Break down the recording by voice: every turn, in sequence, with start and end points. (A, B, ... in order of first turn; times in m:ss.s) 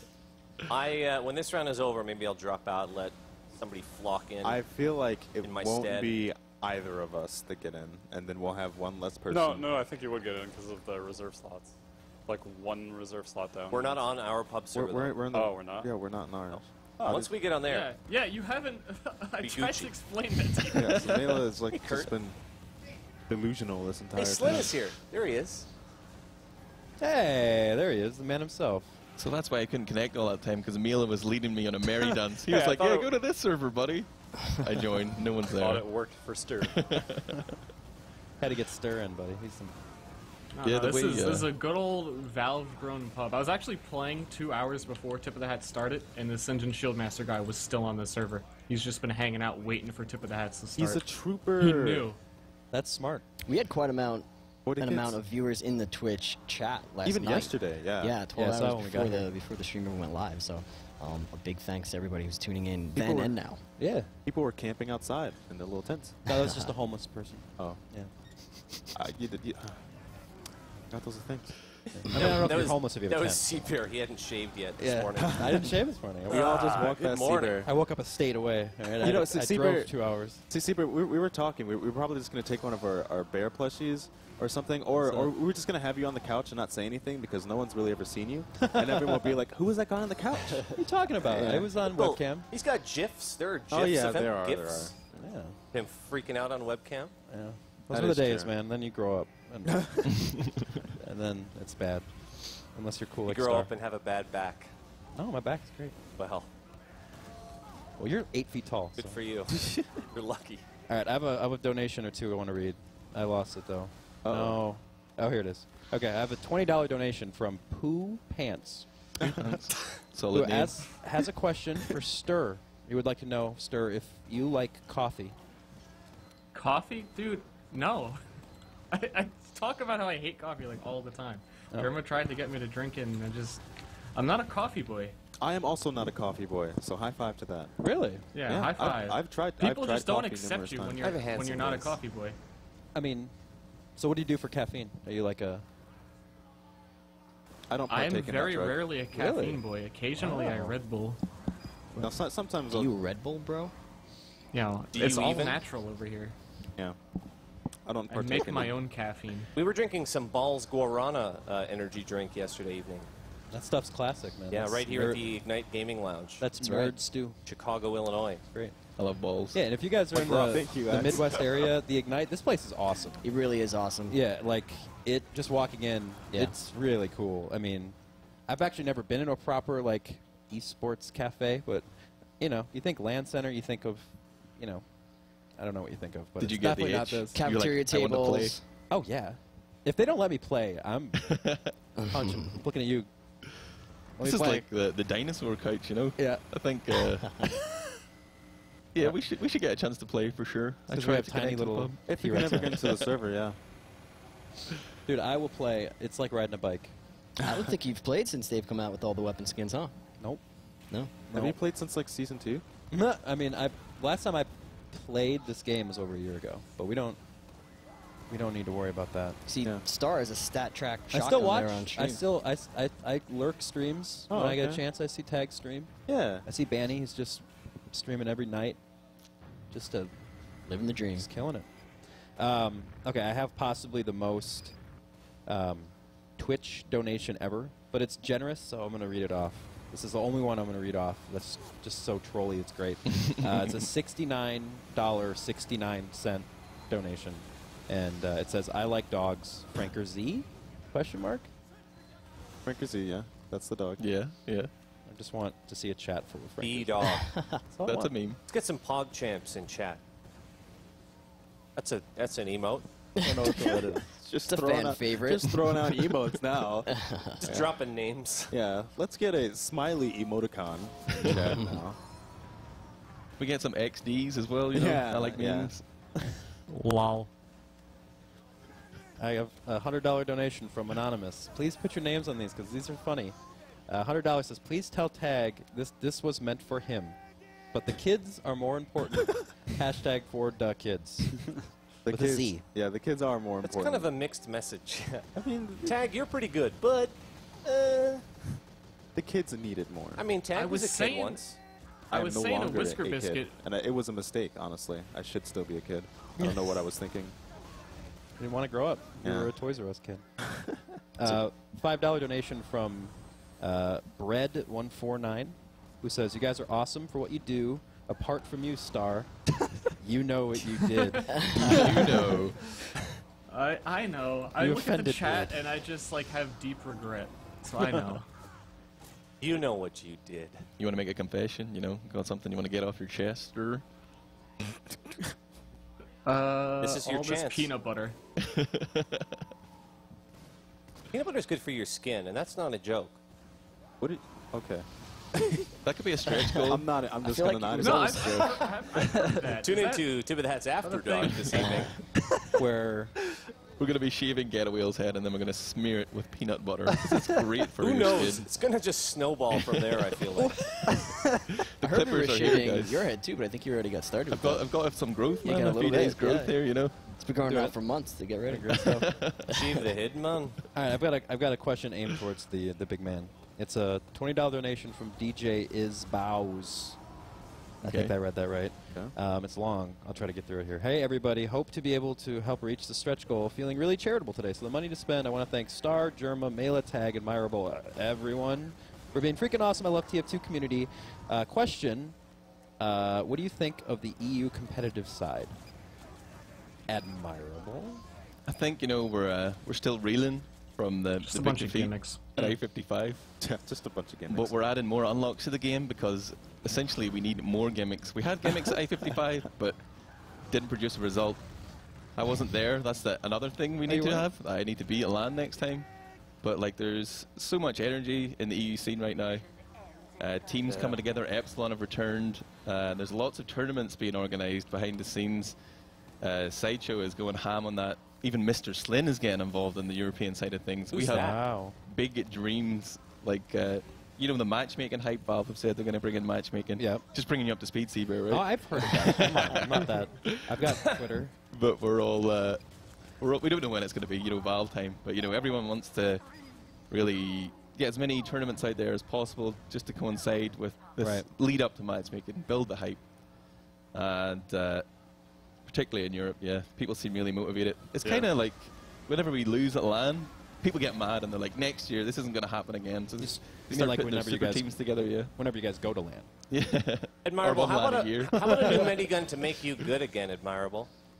0:00.7-0:04.6 A
0:04.4-0:09.8 B
0:05.4-0:06.2 A
0:09.3-0:11.8 C
0:12.3-0:14.0 C
0:13.7-0:15.3 A
0:14.7-0:17.2 B
0:15.3-0:15.9 C
0:16.5-0:17.9 A
0:17.0-0:17.4 C
0:17.6-0:21.9 D
0:19.4-0:19.9 A
0:20.7-0:22.4 B
0:23.3-0:24.8 B
0:24.2-0:25.7 A
0:27.0-0:29.0 E
0:29.2-0:35.9 F
0:32.5-0:33.1 C
0:35.6-0:36.7 C
0:36.6-0:37.2 F
0:38.4-0:39.8 E
0:40.5-0:52.2 D
0:40.6-0:41.6 F
0:50.8-0:52.1 B
0:52.7-0:53.2 E
0:53.5-0:54.3 G
0:54.7-0:55.2 B
0:54.8-1:03.6 G
0:57.0-0:58.2 B
0:58.4-0:59.3 E
1:03.0-1:03.4 B
1:03.8-1:04.1 E
1:04.2-1:06.2 B
1:06.3-1:08.9 E
1:06.3-1:06.7 G
1:09.0-1:09.8 B
1:10.9-1:11.6 B
1:11.9-1:13.7 E
1:12.2-1:15.7 A
1:14.8-1:16.8 E
1:15.2-1:17.7 B
1:16.3-1:17.6 A
1:17.6-1:20.4 E
1:19.0-1:30.7 B
1:25.0-1:25.3 E
1:28.6-1:29.4 E
1:30.7-1:32.5 E
1:31.3-1:31.7 G
1:31.8-1:34.9 A
1:33.7-1:35.2 B
1:35.2-1:35.6 E
1:35.7-1:37.2 A
1:37.3-1:40.2 E
1:37.9-1:38.5 B
1:39.7-1:40.2 B
1:41.0-1:43.7 E
1:43.3-1:44.7 A
1:45.2-1:46.0 E
1:46.2-1:46.5 A
1:48.0-1:49.2 E
1:49.0-1:50.6 A
1:49.7-1:50.0 F
1:50.9-1:58.9 E
1:54.2-1:54.6 B
1:59.3-2:01.1 F
2:00.3-2:05.4 E
2:06.5-2:08.2 D
2:08.9-2:15.2 D
2:15.4-2:17.7 B
2:17.8-2:18.2 E
2:18.3-2:22.4 D
2:18.5-2:21.4 B
2:21.0-2:22.0 A
2:23.0-2:23.3 E
2:24.0-2:25.6 E
2:27.7-2:28.9 B
2:27.9-2:31.2 D
2:29.1-2:29.6 E
2:30.2-2:30.7 E
2:30.3-2:30.6 G
2:32.0-2:32.9 B
2:32.7-2:33.7 G
2:34.5-2:36.4 D
2:34.9-2:35.6 A
2:37.9-2:38.8 B
2:38.1-2:39.5 D
2:39.6-2:43.1 A
2:43.5-2:45.4 E
2:44.5-2:46.4 A
2:46.4-2:47.4 E
2:47.4-2:48.4 A
2:49.0-2:49.7 F
2:49.5-2:53.2 E
2:50.1-2:51.5 B
2:53.2-2:54.2 G
2:54.1-2:58.0 E
2:58.5-3:01.9 E
3:02.4-3:04.8 E
3:05.6-3:07.4 E
3:06.4-3:08.6 F
3:07.3-3:08.6 G
3:08.9-3:11.3 E
3:11.2-3:11.7 F
3:12.0-3:12.6 G
3:12.1-3:13.1 E
3:14.2-3:14.6 E
3:14.2-3:17.5 F
3:16.2-3:16.4 E
3:18.9-3:22.5 F
3:20.9-3:22.8 E
3:22.1-3:23.6 B
3:25.1-3:27.0 E
3:27.4-3:29.9 G
3:30.9-3:31.2 G
3:31.3-3:31.6 E
3:31.3-3:32.6 B
3:32.9-3:37.2 E
3:38.3-3:39.4 E
3:39.5-3:42.2 G
3:41.1-3:48.8 E
3:44.3-3:44.8 B
3:46.1-3:46.5 B
3:49.7-3:50.1 E
3:50.7-3:51.3 G
3:51.2-3:51.7 E
3:52.4-3:54.8 E
3:55.5-4:11.5 E
4:03.4-4:03.9 F
4:12.6-4:14.0 B
4:14.0-4:14.7 F
4:15.1-4:18.1 E
4:16.6-4:17.3 A
4:17.1-4:17.6 G
4:17.8-4:18.4 F
4:18.5-4:20.0 A
4:21.8-4:22.9 A
4:23.2-4:23.9 G
4:23.2-4:24.1 E
4:24.2-4:26.9 B
4:24.4-4:25.5 G
4:26.9-4:27.6 G
4:27.4-4:28.5 A
4:28.5-4:32.0 B
4:31.3-4:31.5 F
4:31.3-4:31.6 E
4:33.4-4:35.9 F
4:34.7-4:35.8 B
4:36.7-4:37.3 D
4:39.2-4:43.4 E
4:43.9-4:47.2 E
4:47.7-4:51.6 E
4:52.0-4:54.1 B
4:52.1-4:52.6 E
4:53.6-4:55.3 A
4:55.4-4:56.0 B
4:55.8-4:57.2 A
4:59.2-5:00.2 B
5:00.2-5:01.6 A
5:00.5-5:01.6 D
5:02.1-5:03.6 D
5:02.1-5:07.4 B
5:06.4-5:06.7 E
5:08.4-5:10.2 E
5:09.2-5:09.5 B
5:10.6-5:11.4 B
5:11.2-5:19.4 E
5:20.0-5:21.8 E
5:21.0-5:21.3 D
5:21.3-5:21.6 G
5:21.5-5:22.8 F
5:23.5-5:28.3 D
5:24.6-5:25.6 E
5:29.4-5:30.7 A
5:30.8-5:33.8 F
5:36.2-5:38.2 D
5:36.8-5:37.7 A
5:38.5-5:39.1 F
5:41.1-5:43.2 A
5:44.0-5:45.6 B
5:45.8-5:46.8 F
5:46.6-5:49.1 B
5:47.2-5:48.7 G
5:47.8-5:50.3 D
5:49.6-5:51.9 A
5:50.8-5:51.8 D
5:51.6-5:51.9 G
5:52.5-5:53.1 E
5:53.8-5:58.5 F
5:57.8-6:00.6 A
6:00.4-6:01.1 E
6:01.3-6:04.8 G
6:01.8-6:03.1 F
6:04.3-6:07.1 F
6:05.4-6:08.7 G
6:07.5-6:08.0 E
6:08.5-6:09.1 E
6:08.8-6:09.5 F
6:09.5-6:10.6 A
6:10.7-6:17.0 E
6:17.8-6:32.2 E
6:17.8-6:18.2 F
6:32.8-6:35.6 E
6:36.9-6:38.0 E
6:38.5-6:43.3 F
6:41.2-6:42.3 D
6:43.4-6:44.6 B
6:44.3-6:49.8 F
6:50.5-6:51.6 F
6:52.1-6:55.9 F
6:53.9-6:54.3 E
6:56.4-6:59.5 F
7:00.2-7:05.6 F
7:06.2-7:20.6 F
7:10.9-7:11.4 A
7:11.1-7:11.8 E
7:16.8-7:17.0 E
7:18.3-7:21.3 E
7:21.5-7:33.1 F
7:31.0-7:31.3 E
7:33.9-7:34.9 F
7:35.6-7:45.3 F
7:38.0-7:38.3 C
7:43.2-7:46.3 E
7:46.5-7:49.2 F
7:47.2-7:50.9 A